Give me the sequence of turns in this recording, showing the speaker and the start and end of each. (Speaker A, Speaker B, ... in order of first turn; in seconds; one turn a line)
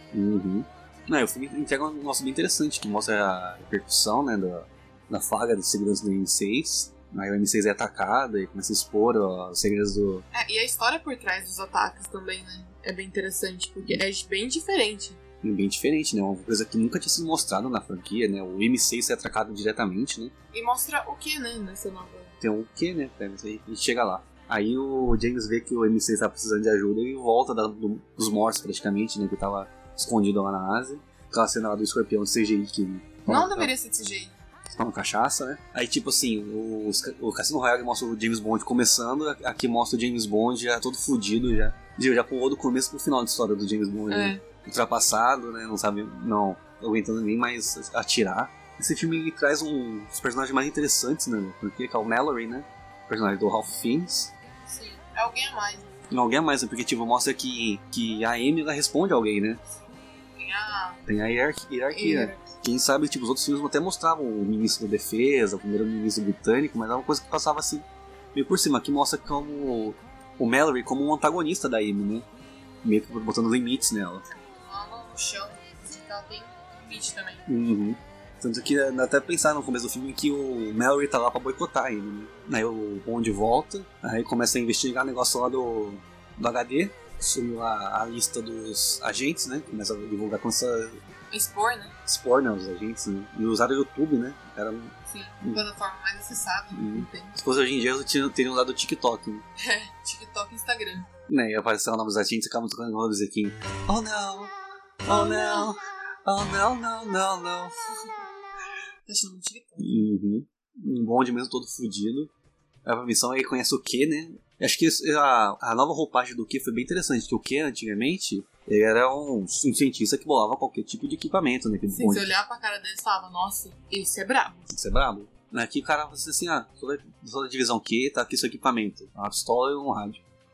Speaker A: 0.1-10.3
Speaker B: 10.3-15.2
Speaker A: 15.4-20.3
Speaker B: 20.5-22.4
Speaker A: 22.4-33.7
Speaker B: 33.3-34.4
Speaker A: 34.7-54.3
Speaker B: 44.1-44.4
Speaker B: 54.7-55.9
Speaker A: 56.1-59.6
Speaker B: 60.4-61.0
Speaker A: 61.1-72.3
Speaker B: 61.9-62.5
Speaker A: 72.8-74.3
Speaker B: 74.6-77.5
Speaker A: 77.5-91.0
Speaker B: 91.3-92.0
Speaker A: 92.1-95.6
Speaker B: 95.1-97.4
Speaker A: 96.7-99.5
Speaker B: 99.6-101.1
Speaker A: 101.3-104.5
Speaker A: 105.0-107.7
Speaker B: 105.1-105.7
Speaker B: 109.1-110.0
Speaker A: 109.8-112.3
Speaker A: 112.8-122.3
Speaker B: 121.9-124.7
Speaker A: 124.7-130.2